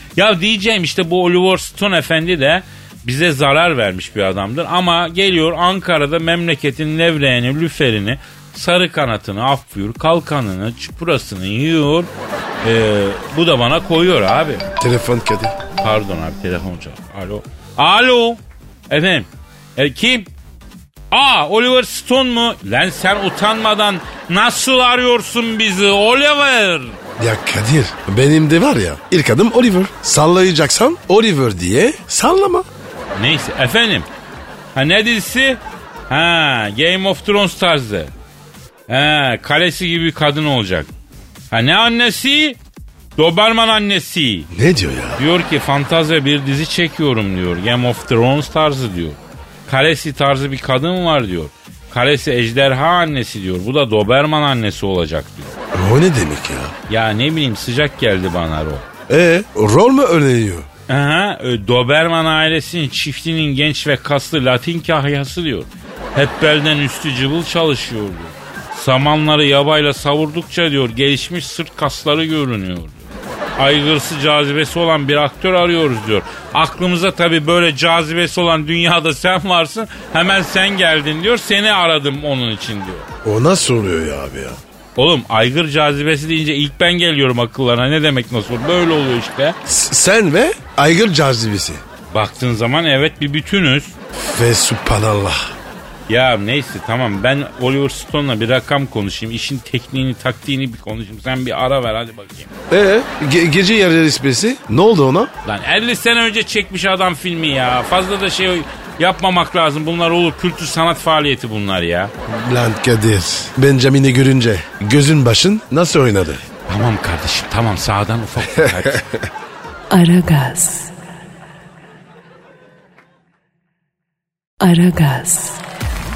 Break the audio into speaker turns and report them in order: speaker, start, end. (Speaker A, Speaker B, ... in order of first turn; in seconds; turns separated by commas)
Speaker A: 0.2-12.1, Speaker A: 12.6-14.7, Speaker B: 14.8-15.6, Speaker A: 15.8-20.3, Speaker A: 21.1-27.0, Speaker B: 27.2-32.7, Speaker A: 33.1-34.1, Speaker A: 34.8-38.1, Speaker A: 38.9-40.9, Speaker A: 41.5-42.6, Speaker A: 43.2-44.5, Speaker B: 44.5-45.2, Speaker A: 45.2-55.5, Speaker B: 55.7-56.7, Speaker A: 56.9-58.9, Speaker B: 59.1-60.7, Speaker A: 60.9-73.0, Speaker A: 73.6-83.1, Speaker B: 83.2-84.6, Speaker A: 85.0-89.6, Speaker B: 89.7-91.8, Speaker A: 92.1-94.0, Speaker B: 94.1-95.5, Speaker A: 96.1-102.5, Speaker B: 102.7-105.3, Speaker A: 105.5-112.1, Speaker B: 112.3-116.4, Speaker A: 116.7-119.0, Speaker B: 118.6-119.2, Speaker C: 119.9-120.9, Speaker C: 124.6-125.6